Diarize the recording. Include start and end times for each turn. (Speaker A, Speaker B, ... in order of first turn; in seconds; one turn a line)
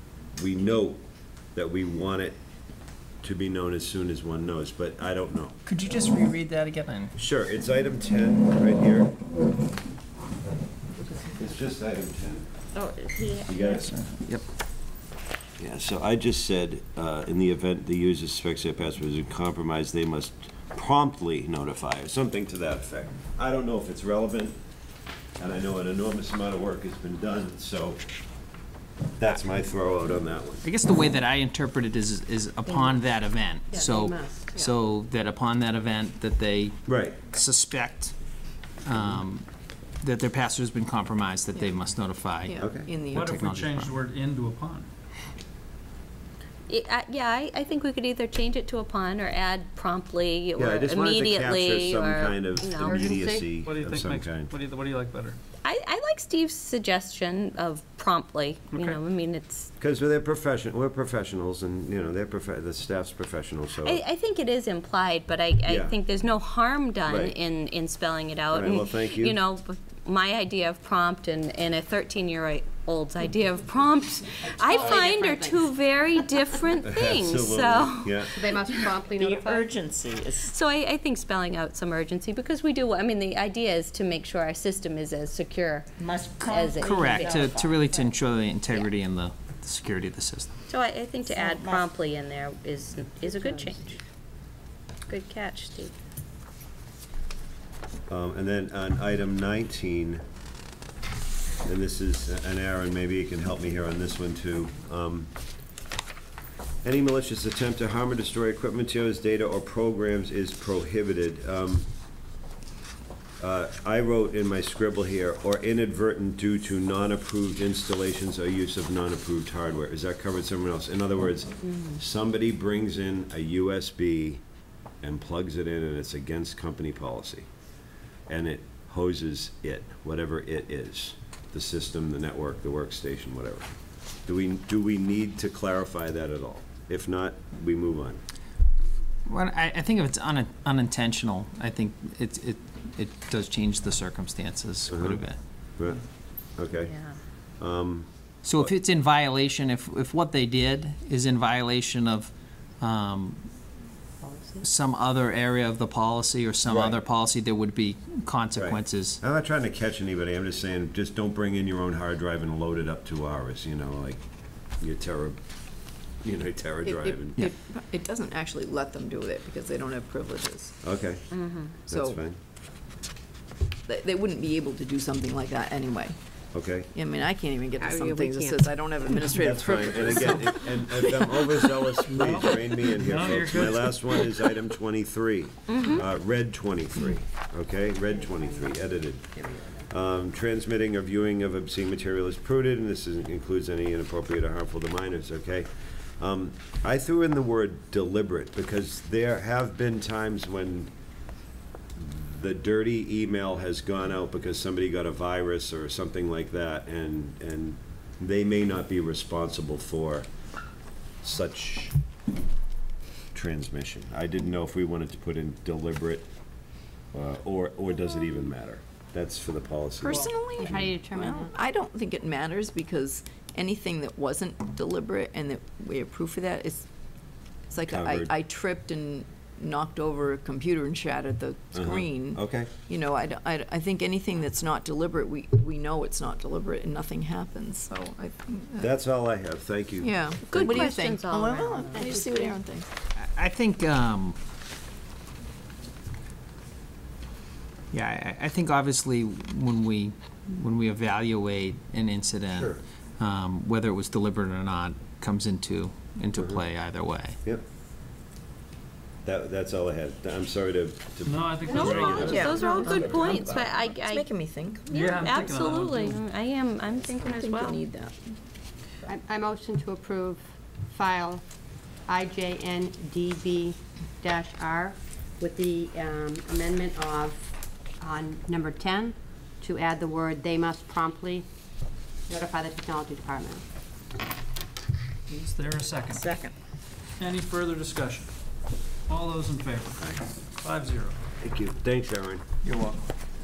Speaker A: 0.3-1.0
Speaker A: 1.5-2.4
Speaker A: 3.2-5.6
Speaker B: 5.7-7.1
Speaker A: 7.2-9.2
Speaker A: 11.2-12.5
Speaker C: 12.8-13.6
Speaker A: 13.4-14.0
Speaker B: 13.9-14.4
Speaker A: 15.6-24.6
Speaker A: 25.4-28.0
Speaker A: 29.2-30.6
Speaker B: 30.6-38.1
Speaker D: 32.7-33.0
Speaker D: 33.7-34.5
Speaker A: 36.9-37.2
Speaker B: 38.8-39.5
Speaker B: 40.0-42.6
Speaker E: 41.5-41.9
Speaker E: 42.5-43.4
Speaker A: 42.6-42.9
Speaker F: 43.1-44.9
Speaker B: 43.1-43.9
Speaker C: 46.7-53.1
Speaker A: 50.6-54.5
Speaker D: 52.8-53.5
Speaker F: 53.6-55.4
Speaker C: 55.6-59.7
Speaker A: 59.8-64.0
Speaker C: 63.8-78.3
Speaker A: 65.7-66.0
Speaker A: 67.1-67.4
Speaker A: 68.5-69.4
Speaker D: 74.4-75.7
Speaker A: 76.8-78.4
Speaker D: 78.3-79.8
Speaker G: 79.1-80.5
Speaker C: 80.5-87.5
Speaker G: 86.0-88.0
Speaker B: 86.4-90.5
Speaker C: 90.7-94.0
Speaker G: 91.3-91.8
Speaker C: 95.1-95.9
Speaker A: 98.1-100.2
Speaker A: 101.6-105.3
Speaker A: 106.8-111.9
Speaker A: 113.4-124.4
Speaker A: 125.0-127.5
Speaker A: 128.3-133.7
Speaker A: 134.3-138.2
Speaker B: 139.3-145.4
Speaker A: 144.9-145.2
Speaker A: 145.8-146.0
Speaker A: 146.6-146.9
Speaker C: 146.8-147.2
Speaker A: 147.6-148.1
Speaker B: 148.4-152.3
Speaker B: 152.8-153.4
Speaker C: 154.2-154.6
Speaker B: 154.6-159.2
Speaker A: 156.7-157.0
Speaker A: 158.6-164.2
Speaker A: 164.8-165.4
Speaker A: 166.2-167.4
Speaker E: 166.8-170.8
Speaker A: 170.8-171.3
Speaker C: 171.3-171.8
Speaker A: 171.9-172.4
Speaker E: 171.9-172.2
Speaker E: 173.9-176.2
Speaker A: 176.5-176.9
Speaker E: 176.9-183.1
Speaker A: 179.4-189.4
Speaker F: 182.1-183.9
Speaker E: 184.0-184.5
Speaker C: 185.7-186.0
Speaker D: 188.2-188.7
Speaker D: 189.4-189.7
Speaker A: 189.9-200.9
Speaker A: 202.0-210.3
Speaker A: 211.2-212.0
Speaker A: 213.3-216.3
Speaker A: 217.1-220.8
Speaker E: 220.0-226.9
Speaker D: 220.6-221.5
Speaker E: 227.7-238.9
Speaker A: 227.9-228.3
Speaker A: 231.7-232.7
Speaker A: 238.8-240.8
Speaker E: 240.0-242.9
Speaker C: 240.5-242.2
Speaker D: 241.9-242.6
Speaker B: 243.2-244.4
Speaker B: 247.9-257.4
Speaker A: 252.5-252.8
Speaker A: 256.4-256.6
Speaker A: 259.2-262.6
Speaker F: 261.2-263.5
Speaker C: 261.7-264.3
Speaker E: 262.2-264.9
Speaker C: 264.9-267.8
Speaker F: 264.9-266.2
Speaker E: 266.9-268.4
Speaker D: 269.1-271.4
Speaker D: 272.1-281.5
Speaker D: 282.3-283.6
Speaker F: 285.3-286.3
Speaker E: 286.0-286.6
Speaker F: 287.2-288.3
Speaker F: 289.1-291.2
Speaker A: 290.0-290.2
Speaker A: 291.4-292.4
Speaker F: 292.6-293.1